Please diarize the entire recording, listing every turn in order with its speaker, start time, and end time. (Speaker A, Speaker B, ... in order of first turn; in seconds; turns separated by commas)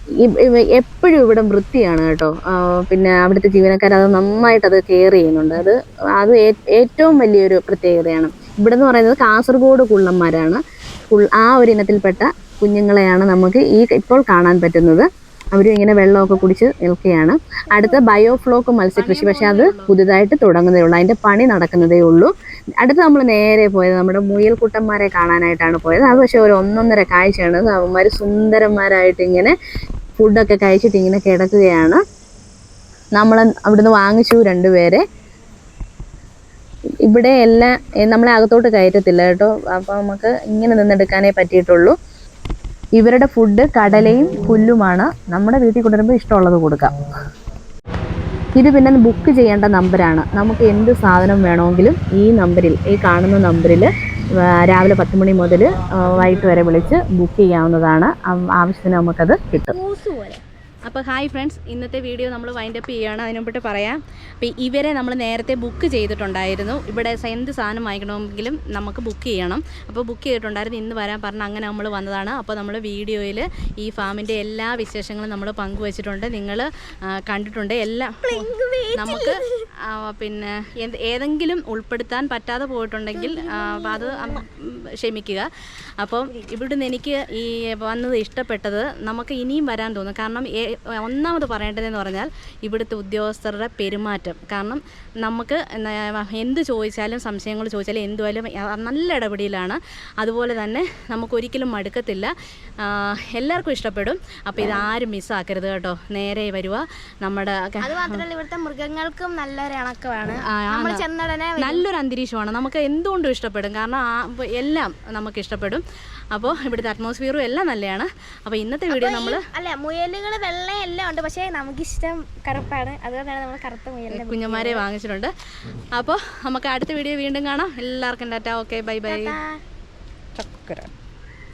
Speaker A: 0.2-29.5, Speaker B: 18.9-19.9, Speaker A: 30.2-32.0, Speaker A: 33.2-35.0, Speaker A: 37.0-41.9, Speaker A: 43.0-46.9, Speaker A: 48.6-53.9, Speaker A: 54.4-59.8, Speaker C: 59.7-60.4, Speaker B: 60.9-76.7, Speaker B: 77.2-85.5, Speaker C: 78.2-79.7, Speaker C: 83.1-84.4, Speaker B: 86.0-108.2, Speaker C: 107.8-111.8, Speaker B: 110.4-111.0, Speaker B: 111.6-119.4, Speaker C: 118.9-124.8, Speaker B: 124.1-125.3, Speaker B: 125.9-129.4, Speaker C: 129.1-129.6, Speaker B: 130.4-130.9